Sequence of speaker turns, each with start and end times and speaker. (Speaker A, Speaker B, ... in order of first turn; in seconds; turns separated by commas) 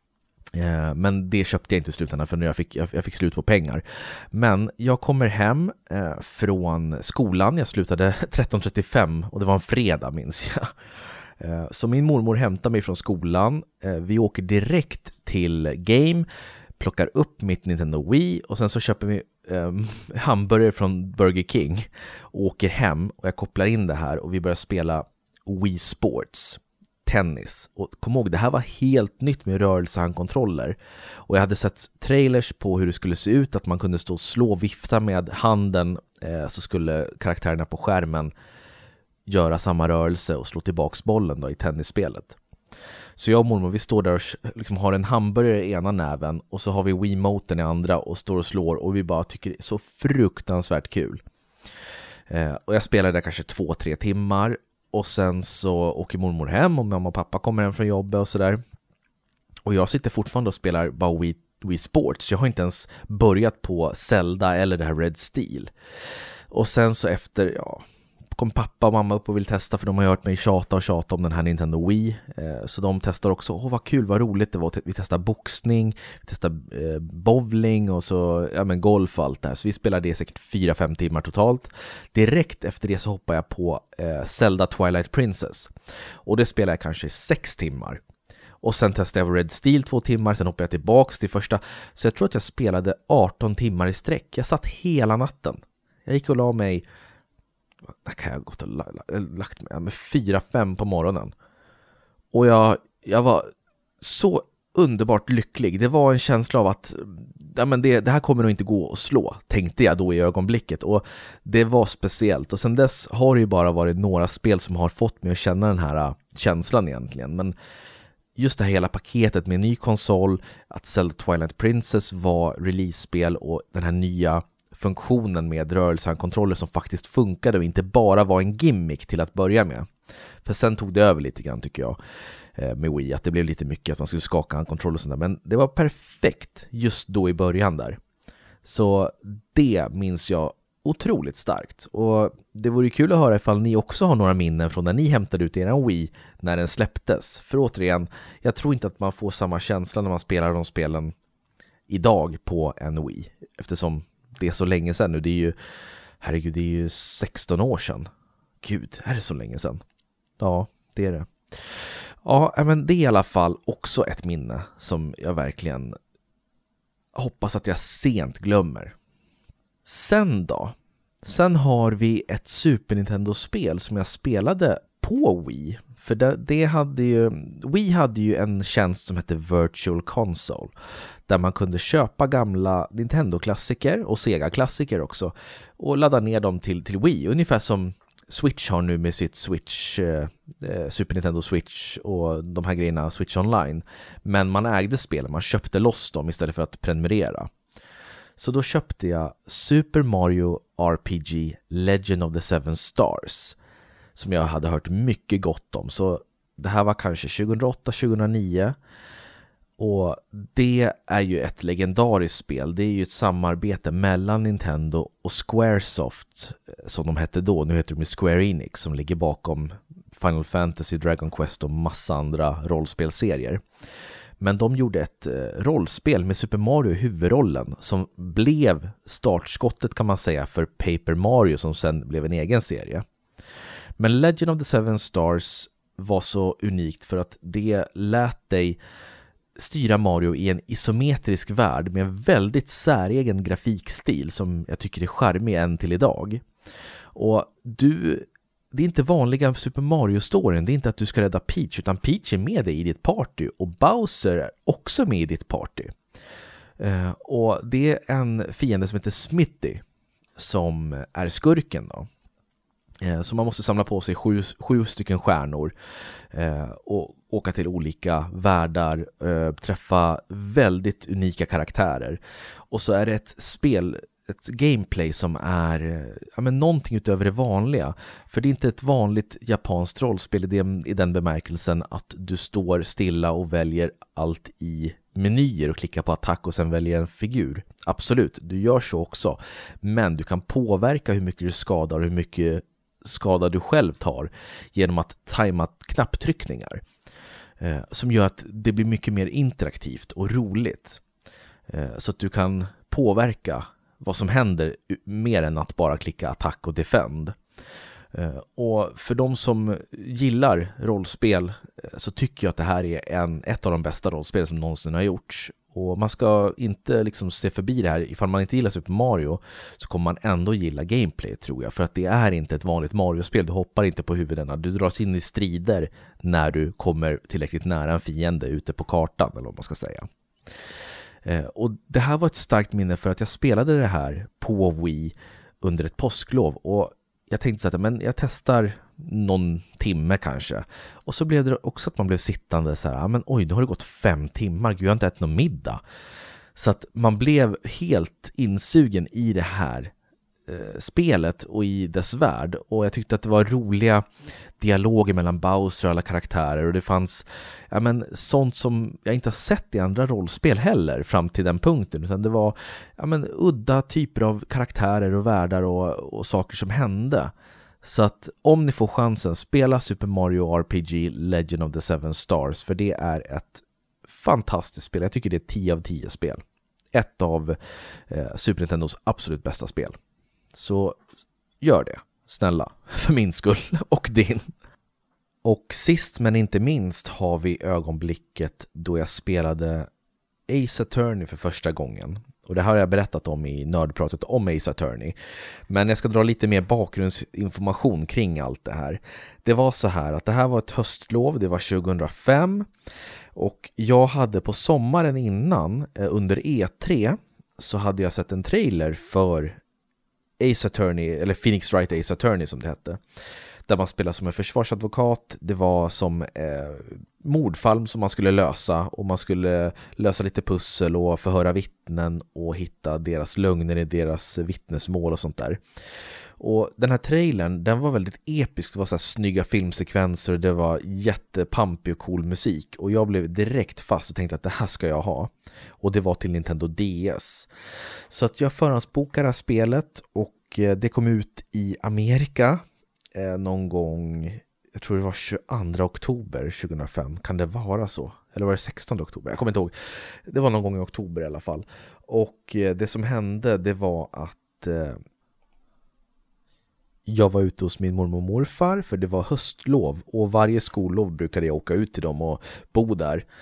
Speaker A: 0.5-10.7, Speaker A: 11.4-16.2, Speaker A: 16.8-38.3, Speaker A: 39.3-42.4, Speaker A: 43.2-51.2, Speaker A: 52.3-58.6, Speaker A: 59.6-65.7, Speaker A: 66.5-85.7, Speaker A: 86.2-88.0, Speaker A: 88.6-96.8, Speaker A: 98.0-101.3, Speaker A: 102.3-103.5, Speaker A: 104.0-117.5, Speaker A: 118.3-129.9, Speaker A: 130.4-132.0, Speaker A: 132.6-138.0, Speaker A: 138.6-151.1, Speaker A: 151.9-155.5, Speaker A: 156.2-158.1, Speaker A: 158.6-159.8, Speaker A: 160.4-165.9, Speaker A: 167.1-168.9, Speaker A: 169.8-180.7, Speaker A: 181.3-197.5, Speaker A: 198.4-203.6, Speaker A: 204.1-208.8, Speaker A: 209.8-223.6, Speaker A: 224.4-233.0, Speaker A: 234.0-238.8, Speaker A: 239.6-246.4, Speaker A: 247.1-255.9, Speaker A: 256.8-259.8, Speaker A: 260.4-262.1, Speaker A: 263.0-265.7, Speaker A: 266.3-272.2, Speaker A: 272.7-296.8, Speaker A: 297.6-301.0, Speaker A: 301.7-307.4, Speaker A: 308.1-330.1, Speaker A: 331.2-345.8, Speaker A: 346.6-349.9, Speaker A: 350.5-354.1, Speaker A: 354.6-376.4, Speaker A: 376.9-377.6, Speaker A: 378.1-379.9, Speaker A: 380.5-381.0, Speaker A: 381.6-384.5, Speaker A: 385.4-389.9, Speaker A: 390.5-395.1, Speaker A: 395.7-402.7, Speaker A: 403.3-409.6, Speaker A: 410.4-413.0, Speaker A: 413.7-425.6, Speaker A: 426.4-437.5, Speaker A: 438.1-442.6, Speaker A: 443.1-449.7, Speaker A: 450.3-455.0, Speaker A: 457.1-463.2